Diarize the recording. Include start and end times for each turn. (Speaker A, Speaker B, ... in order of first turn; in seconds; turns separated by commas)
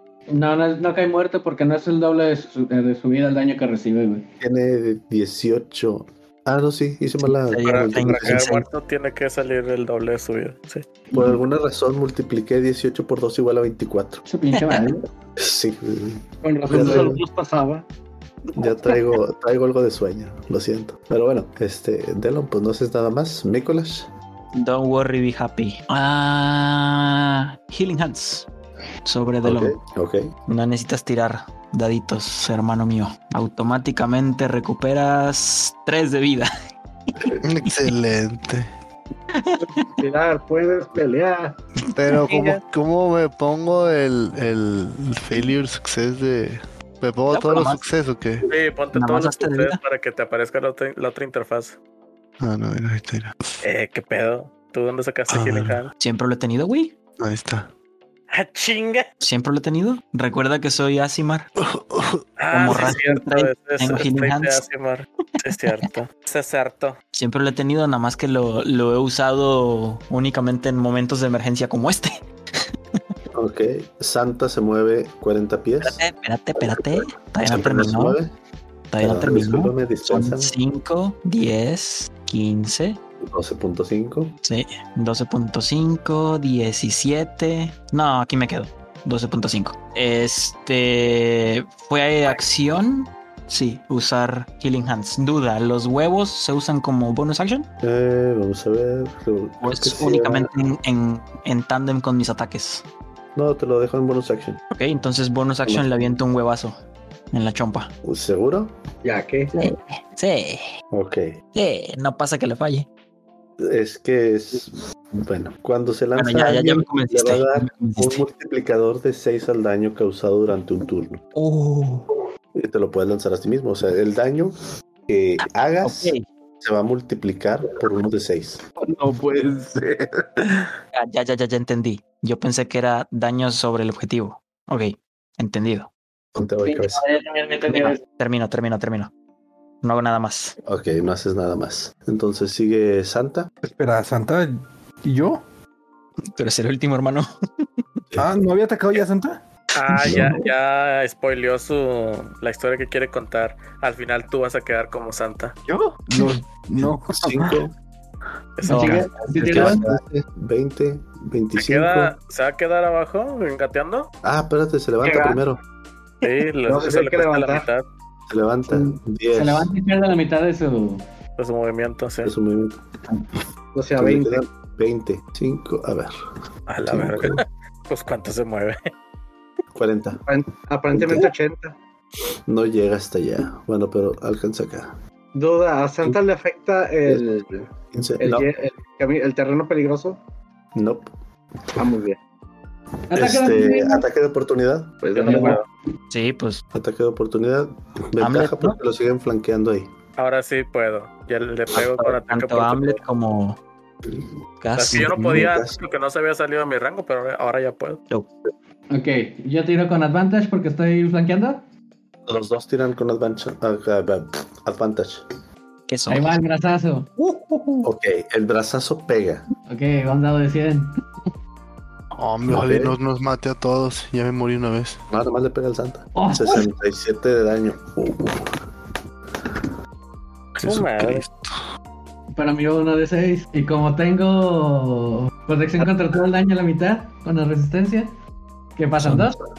Speaker A: 0.3-4.2, Speaker B: 4.4-8.5, Speaker C: 7.3-8.7, Speaker D: 7.6-10.9, Speaker B: 11.1-14.2, Speaker A: 14.3-15.1, Speaker C: 14.5-14.8, Speaker B: 15.4-17.2, Speaker E: 16.4-17.9, Speaker B: 18.6-24.1, Speaker C: 24.5-28.5, Speaker C: 29.1-29.8, Speaker B: 29.4-30.3, Speaker C: 30.5-36.5, Speaker F: 37.4-38.7, Speaker C: 39.3-39.9, Speaker E: 40.0-41.6, Speaker F: 41.8-48.5, Speaker C: 42.1-42.5, Speaker C: 47.3-47.9, Speaker D: 48.5-51.8, Speaker C: 48.9-49.8, Speaker F: 52.4-53.5, Speaker D: 53.6-55.9, Speaker F: 55.3-55.8, Speaker C: 56.0-57.0, Speaker F: 57.2-57.7, Speaker D: 58.3-59.1, Speaker C: 59.2-61.5, Speaker F: 61.6-62.2, Speaker D: 62.4-67.0, Speaker C: 62.5-64.6, Speaker C: 67.1-72.2, Speaker B: 73.3-76.0, Speaker C: 75.8-78.2, Speaker B: 76.6-78.3, Speaker C: 78.9-83.0, Speaker B: 79.0-80.5, Speaker B: 83.2-84.4, Speaker C: 84.4-97.7, Speaker B: 97.8-100.5, Speaker C: 99.6-102.8, Speaker B: 103.3-104.6, Speaker C: 104.7-106.8, Speaker B: 105.7-105.9, Speaker C: 107.3-107.9, Speaker B: 108.0-108.7, Speaker E: 109.0-109.5, Speaker C: 109.5-110.7, Speaker B: 110.9-111.3, Speaker C: 111.5-112.9, Speaker B: 113.6-121.2, Speaker C: 116.2-118.2, Speaker C: 121.3-122.1, Speaker B: 122.5-124.6, Speaker B: 125.1-128.6, Speaker C: 125.8-126.2, Speaker G: 128.8-130.6, Speaker C: 130.9-135.9, Speaker B: 136.3-137.0, Speaker C: 136.8-139.1, Speaker C: 139.8-140.6, Speaker B: 140.7-143.5, Speaker G: 143.6-145.4, Speaker C: 146.4-147.3, Speaker G: 148.2-149.4, Speaker D: 149.8-155.6, Speaker B: 150.1-150.3, Speaker G: 156.0-157.6, Speaker B: 157.1-157.7, Speaker D: 158.6-159.1, Speaker C: 158.7-159.9, Speaker B: 158.8-162.2, Speaker A: 159.3-159.8, Speaker D: 161.6-164.1, Speaker B: 164.2-165.6, Speaker E: 165.0-165.4, Speaker D: 166.2-167.8, Speaker E: 166.7-167.7, Speaker B: 168.3-169.7, Speaker A: 168.8-171.0, Speaker D: 171.4-172.3, Speaker B: 172.2-172.8, Speaker E: 173.8-174.4, Speaker B: 174.0-176.2, Speaker D: 176.7-178.9, Speaker B: 176.9-177.4, Speaker B: 179.8-180.2, Speaker E: 180.3-181.8, Speaker B: 180.9-181.3, Speaker B: 182.5-185.0, Speaker E: 185.3-187.6, Speaker B: 187.9-188.5, Speaker E: 188.2-190.2, Speaker B: 190.8-191.1, Speaker E: 191.8-192.2, Speaker A: 193.1-194.1, Speaker B: 193.1-195.0, Speaker E: 195.0-195.6, Speaker D: 195.1-195.7, Speaker A: 195.3-195.6, Speaker C: 196.1-196.6, Speaker B: 196.7-199.9, Speaker C: 198.2-198.8, Speaker D: 200.2-203.0, Speaker C: 201.8-203.6, Speaker C: 204.6-205.3, Speaker D: 204.8-208.0, Speaker B: 204.9-205.8, Speaker A: 208.9-211.6, Speaker B: 212.3-215.2, Speaker C: 215.9-216.4, Speaker A: 216.1-217.1, Speaker C: 217.2-217.8, Speaker B: 217.8-219.5, Speaker A: 219.7-221.0, Speaker F: 222.2-225.0, Speaker B: 222.5-223.0, Speaker B: 225.1-228.6, Speaker A: 226.2-226.7, Speaker F: 230.6-231.6, Speaker D: 230.6-231.3, Speaker A: 232.3-238.1, Speaker A: 238.8-239.4